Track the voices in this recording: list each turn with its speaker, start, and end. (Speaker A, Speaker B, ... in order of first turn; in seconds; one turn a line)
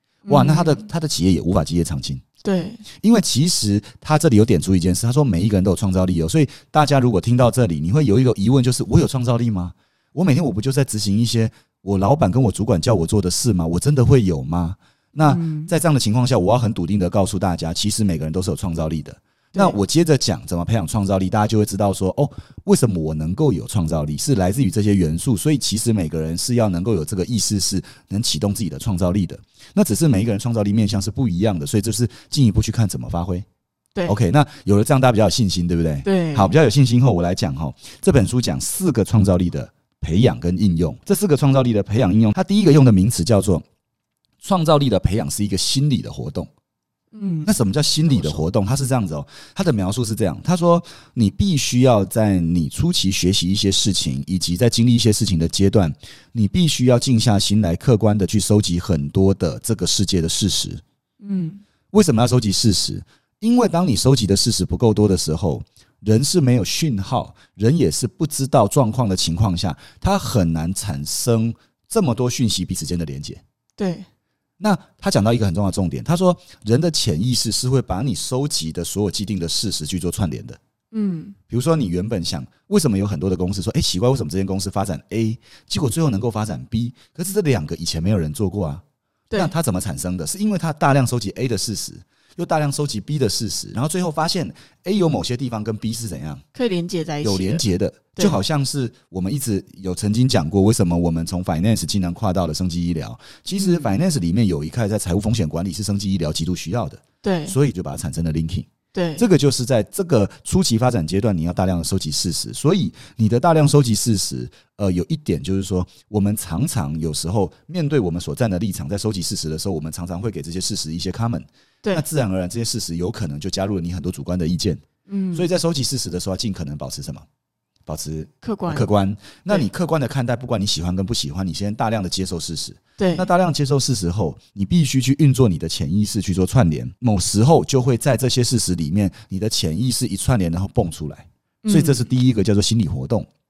Speaker A: 0.3-0.8
Speaker B: 0.3-2.2
Speaker A: 2.4-2.8
Speaker B: 3.0-33.5
Speaker A: 15.2-15.7
Speaker B: 34.1-43.6
Speaker A: 36.0-36.5
Speaker B: 44.4-46.5
Speaker A: 47.1-47.5
Speaker B: 47.5-60.8
Speaker A: 61.2-61.6
Speaker B: 61.9-73.4
Speaker A: 73.8-74.1
Speaker B: 74.6-80.6
Speaker A: 80.9-81.4
Speaker B: 81.5-88.8
Speaker B: 89.3-96.4
Speaker A: 96.5-97.6
Speaker B: 97.2-124.8
Speaker A: 103.5-103.9
Speaker A: 107.2-107.6
Speaker A: 108.9-109.2
Speaker A: 125.1-125.5
Speaker B: 125.3-127.2
Speaker B: 127.9-143.3
Speaker A: 128.4-128.9
Speaker A: 133.0-133.3
Speaker A: 141.6-142.0